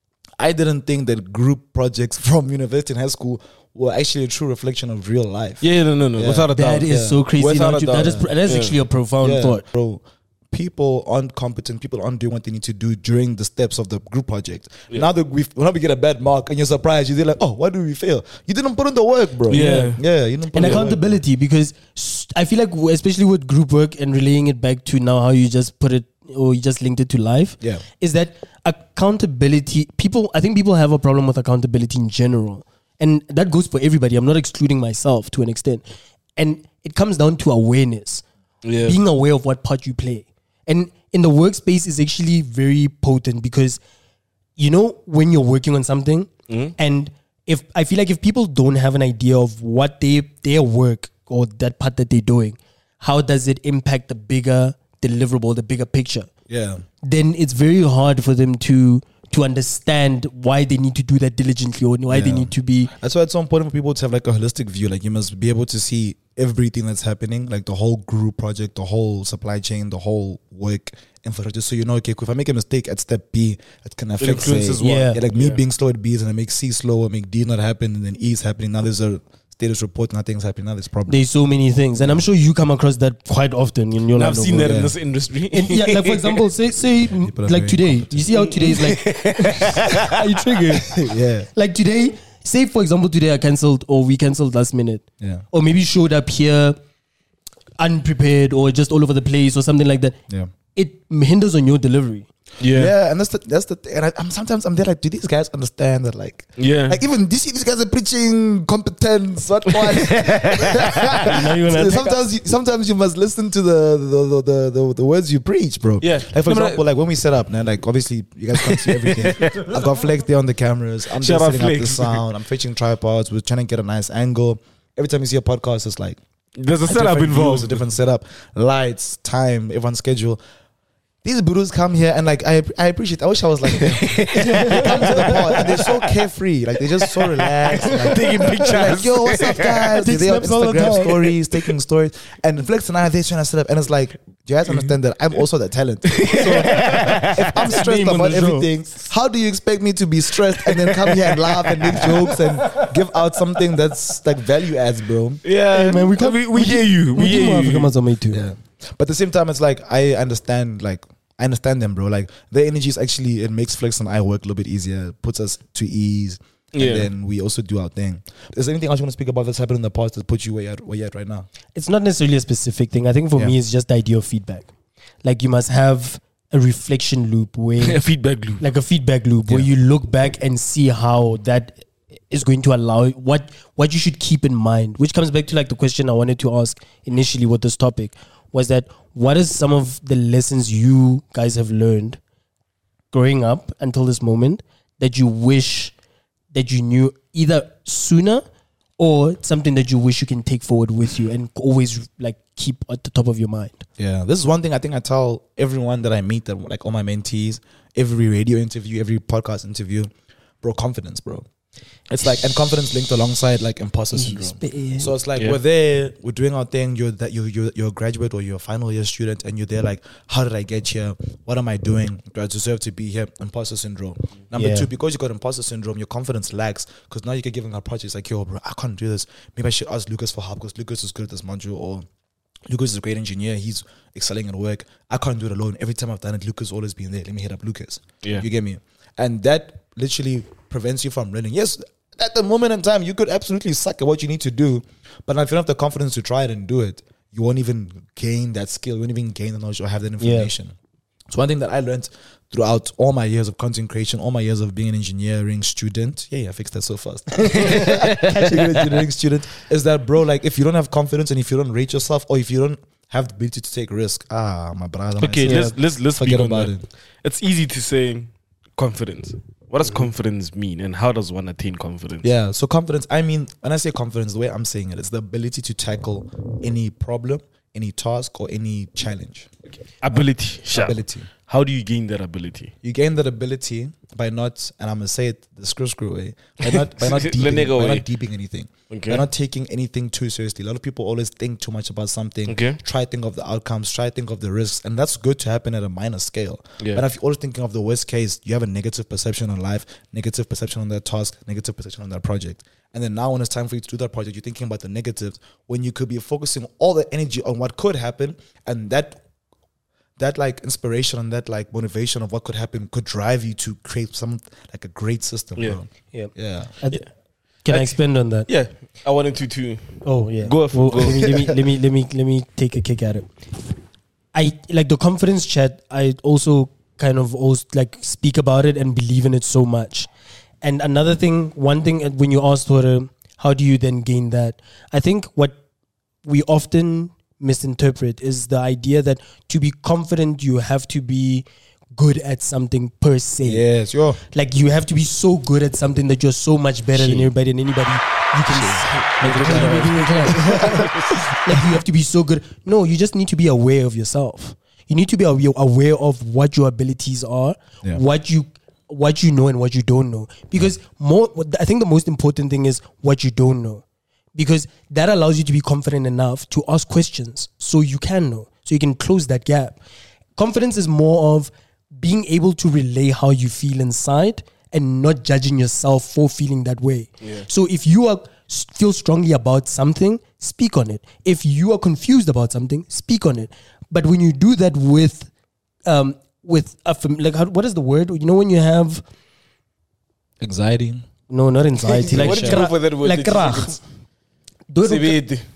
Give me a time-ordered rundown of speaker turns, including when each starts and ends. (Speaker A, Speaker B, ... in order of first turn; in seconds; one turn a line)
Speaker A: 0.4-5.6
Speaker B: 5.6-8.8
Speaker A: 6.2-7.2
Speaker C: 6.5-9.6
Speaker A: 8.0-8.3
Speaker A: 9.2-21.2
Speaker B: 19.5-20.0
Speaker C: 19.5-20.0
Speaker C: 20.5-35.8
Speaker C: 36.4-38.2
Speaker B: 38.6-39.0
Speaker C: 38.8-43.8
Speaker C: 44.6-56.3
Speaker B: 46.5-46.7
Speaker A: 56.5-56.8
Speaker C: 57.0-62.9
Speaker A: 62.1-81.2
Speaker B: 74.2-75.6
Speaker C: 74.8-75.2
Speaker C: 81.1-84.8
Speaker A: 82.0-82.2
Speaker B: 84.1-86.4
Speaker A: 84.6-84.9
Speaker C: 85.5-96.8
Speaker A: 87.2-88.2
Speaker B: 88.3-90.4
Speaker A: 91.0-91.5
Speaker C: 97.8-100.2
Speaker C: 100.8-102.3
Speaker B: 102.6-102.9
Speaker A: 102.7-126.2
Speaker B: 106.6-107.0
Speaker B: 109.8-111.3
Speaker C: 111.2-112.2
Speaker B: 116.0-116.8
Speaker B: 118.5-119.9
Speaker B: 121.2-122.2
Speaker B: 126.6-127.8
Speaker A: 126.9-130.4
Speaker A: 131.2-155.4
Speaker B: 133.7-136.2
Speaker C: 134.3-135.4
Speaker B: 137.0-140.0
Speaker C: 140.0-141.3
Speaker B: 146.1-147.7
Speaker C: 147.5-148.7
Speaker B: 150.6-152.9
Speaker B: 155.4-157.9
Speaker C: 155.7-158.4
Speaker A: 158.3-171.5
Speaker B: 166.7-167.1
Speaker C: 171.8-174.7
Speaker C: 175.2-178.0
Speaker B: 177.8-178.6
Speaker C: 178.6-192.2
Speaker C: 193.1-195.9
Speaker C: 196.5-198.4
Speaker C: 199.0-203.8
Speaker A: 204.0-210.1
Speaker A: 210.6-211.4
Speaker A: 212.1-232.1
Speaker C: 214.1-215.1
Speaker C: 224.5-224.9
Speaker A: 232.7-250.8
Speaker C: 250.2-250.5
Speaker A: 251.3-266.8
Speaker C: 257.5-258.8
Speaker B: 257.7-258.1
Speaker B: 265.2-272.3
Speaker C: 265.4-265.8
Speaker A: 272.2-279.5
Speaker B: 280.0-282.7
Speaker A: 280.1-281.3
Speaker A: 282.8-309.2
Speaker B: 286.6-288.0
Speaker B: 288.9-289.2
Speaker B: 292.5-292.8
Speaker A: 310.2-316.7
Speaker C: 316.1-317.0
Speaker C: 317.6-318.5
Speaker B: 317.7-321.5
Speaker C: 320.0-323.3
Speaker C: 324.3-330.1
Speaker C: 330.6-335.6
Speaker C: 336.2-343.6
Speaker A: 343.4-344.2
Speaker C: 344.3-363.8
Speaker B: 347.0-347.3
Speaker B: 348.6-351.0
Speaker A: 349.2-350.8
Speaker C: 364.3-369.8
Speaker C: 370.4-385.3
Speaker B: 377.2-377.5
Speaker C: 385.9-389.0
Speaker A: 390.4-391.0
Speaker C: 391.3-393.8
Speaker A: 392.1-392.6
Speaker B: 392.1-393.8
Speaker C: 394.7-395.2
Speaker B: 394.8-395.4